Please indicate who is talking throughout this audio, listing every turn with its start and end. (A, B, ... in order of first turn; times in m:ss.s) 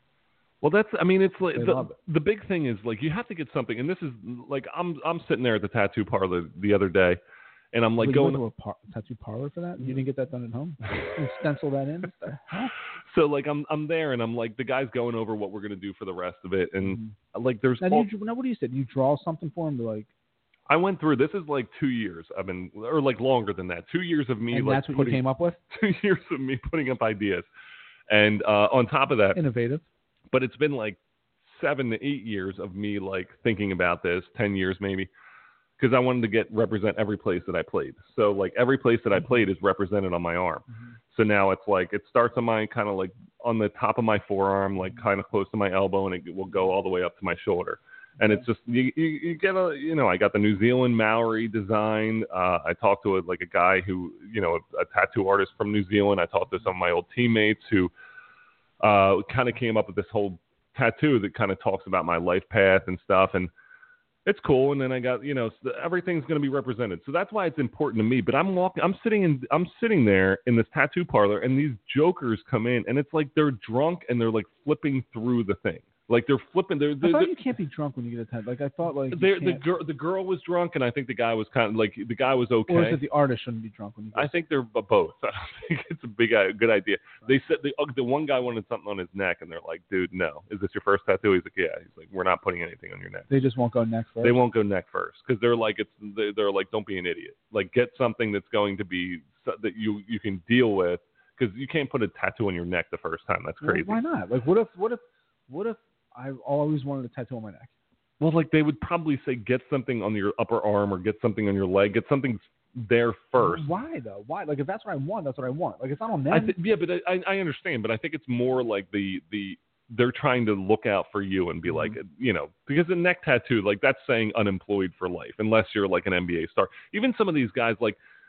0:00.6-0:07.2 A
0:01.5-0:02.0 B
0:07.7-0:08.4 A
0:08.0-0:12.7 B
0:13.0-0:18.1 A
0:16.8-0:17.2 B
0:17.8-0:20.1 B
0:20.7-0:27.5 A
0:24.5-0:25.6 B
0:28.1-0:29.4 A
0:29.3-0:29.8 B
0:30.3-0:35.1 A
0:35.8-0:57.9 A
0:40.7-0:41.0 B
0:58.8-1:03.5 A
1:04.2-1:17.3 A
1:17.0-1:19.6 B
1:19.1-1:23.0 A
1:22.7-1:24.4 B
1:24.1-1:33.3 A
1:33.3-1:34.4 B
1:34.2-1:44.0 A
1:43.6-1:47.7 B
1:48.2-1:53.7 A
1:53.4-1:56.6 B
1:56.3-2:08.0 A
2:01.6-2:02.0 B